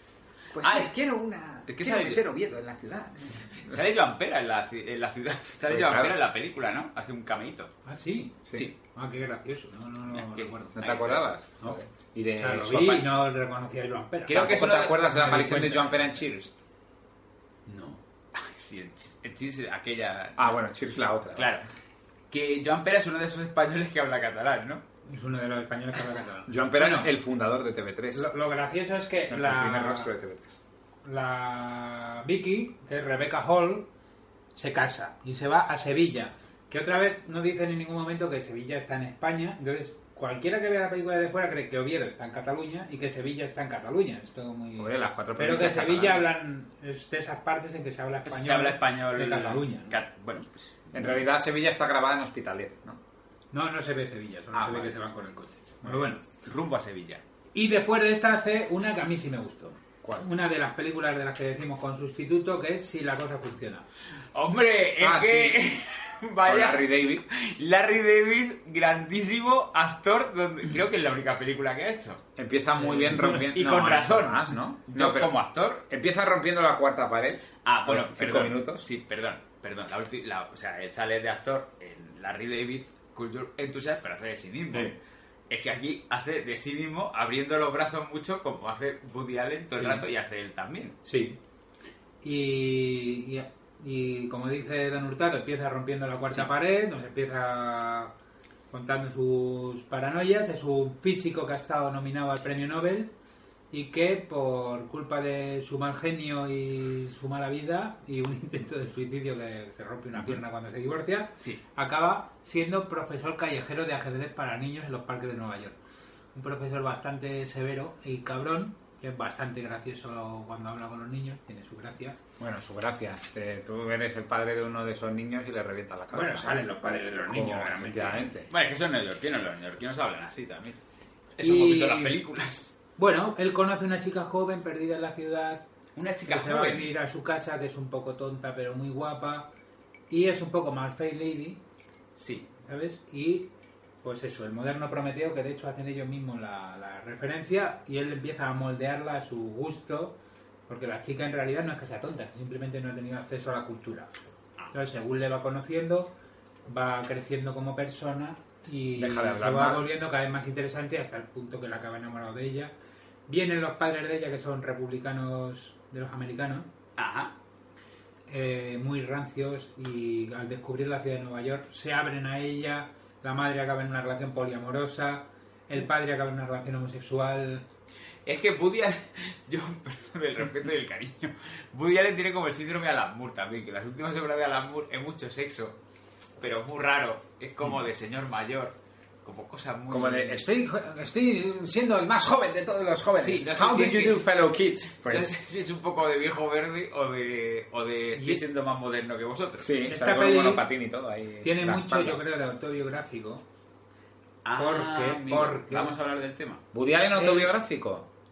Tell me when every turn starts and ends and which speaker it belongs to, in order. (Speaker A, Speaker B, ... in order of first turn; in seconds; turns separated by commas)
Speaker A: 0.5-3.8, Speaker B: 0.6-0.9, Speaker B: 1.7-2.2, Speaker B: 3.5-7.7, Speaker A: 5.7-6.2, Speaker C: 7.9-8.4, Speaker C: 8.9-10.8, Speaker B: 10.2-11.2, Speaker A: 10.8-13.1, Speaker C: 12.4-14.4, Speaker B: 14.3-15.0, Speaker A: 14.3-16.5, Speaker C: 14.9-16.2, Speaker C: 17.7-18.0, Speaker B: 18.3-20.6, Speaker A: 20.4-21.6, Speaker B: 21.4-21.7, Speaker B: 22.3-24.8, Speaker C: 25.1-27.1, Speaker A: 26.5-28.3, Speaker C: 28.1-30.1, Speaker A: 29.3-30.6, Speaker C: 31.1-33.9, Speaker C: 34.6-50.0, Speaker A: 44.8-46.3, Speaker B: 48.3-51.1, Speaker A: 50.9-53.0, Speaker C: 53.5-56.2, Speaker A: 54.5-55.0, Speaker B: 56.4-57.2, Speaker C: 57.5-63.9, Speaker B: 64.3-72.2, Speaker A: 65.0-65.8, Speaker A: 66.4-67.2, Speaker A: 72.4-75.3, Speaker B: 73.1-75.8, Speaker A: 75.9-78.8, Speaker B: 77.7-85.0, Speaker B: 85.5-91.0, Speaker C: 89.8-90.0, Speaker C: 91.0-91.4, Speaker C: 92.2-98.1, Speaker C: 98.7-103.1, Speaker C: 103.7-115.8, Speaker C: 116.3-122.2, Speaker A: 122.4-128.5, Speaker C: 126.1-128.2, Speaker B: 128.5-130.8, Speaker B: 131.4-132.7, Speaker C: 131.4-132.2, Speaker C: 133.0-135.6, Speaker B: 136.0-136.9, Speaker C: 136.3-139.5, Speaker C: 140.1-141.6, Speaker B: 142.2-142.5, Speaker C: 142.7-143.5, Speaker C: 144.0-150.2, Speaker C: 150.7-154.1, Speaker C: 154.7-156.1, Speaker C: 156.7-162.7, Speaker A: 159.0-159.9, Speaker C: 163.3-166.7, Speaker B: 167.0-167.3, Speaker C: 168.3-177.7, Speaker B: 178.3-185.8, Speaker B: 186.4-190.5, Speaker A: 189.9-195.4, Speaker B: 193.1-194.3, Speaker B: 195.1-199.7, Speaker A: 199.6-202.2, Speaker C: 199.9-200.7, Speaker C: 201.4-203.4, Speaker B: 204.4-206.6, Speaker C: 204.6-205.9, Speaker A: 206.7-208.1, Speaker C: 207.2-207.5